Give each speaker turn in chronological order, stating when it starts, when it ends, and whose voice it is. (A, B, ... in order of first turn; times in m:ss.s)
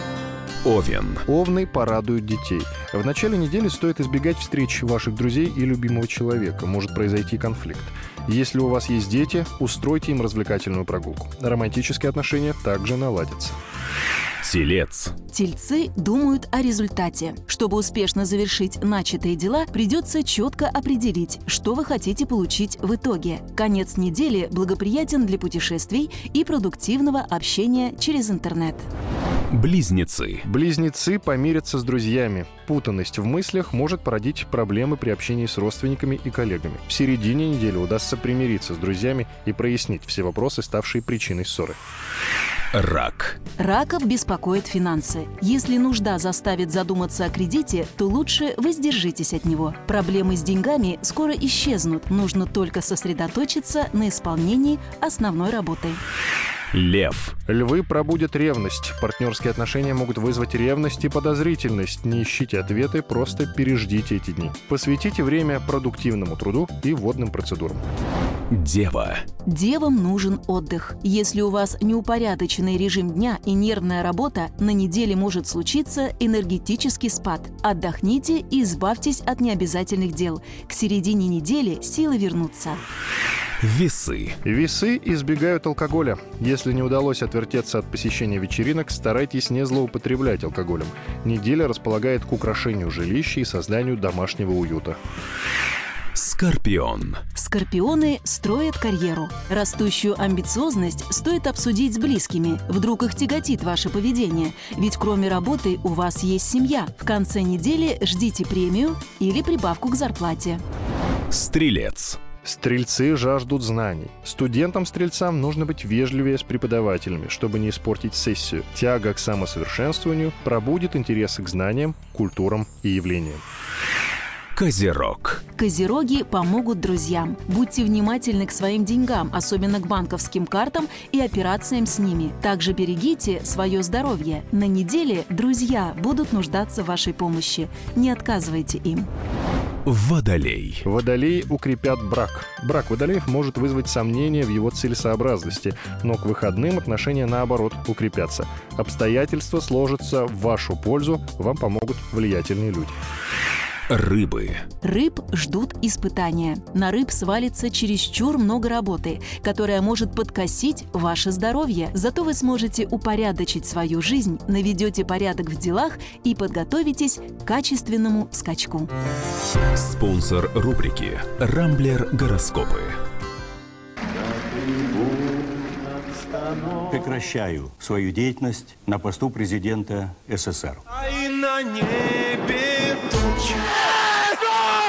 0:00.6-0:01.3 A
0:01.3-0:13.6 B
0:14.4-0:15.2 A
0:15.3-0:28.9 C
0:29.5-0:30.5 A
0:30.4-0:41.8 B
0:42.7-0:43.4 A
0:43.6-0:56.0 C
0:56.7-0:57.4 A
0:57.5-1:07.8 B
1:08.5-1:09.2 A
1:09.5-1:22.8 C
1:23.6-1:24.4 A
1:24.4-1:35.0 B
1:36.2-1:37.3 A
1:37.3-1:50.6 C
1:51.3-1:52.2 A
1:52.4-2:03.4 B
2:04.6-2:05.4 A
2:05.6-2:19.1 C
2:19.9-2:20.9 A
2:20.8-2:33.0 B
2:33.9-2:34.7 A
2:34.8-2:48.9 C
2:49.8-2:53.0 A
2:56.4-2:56.7 D
2:56.8-3:00.8 E
3:01.0-3:03.6 D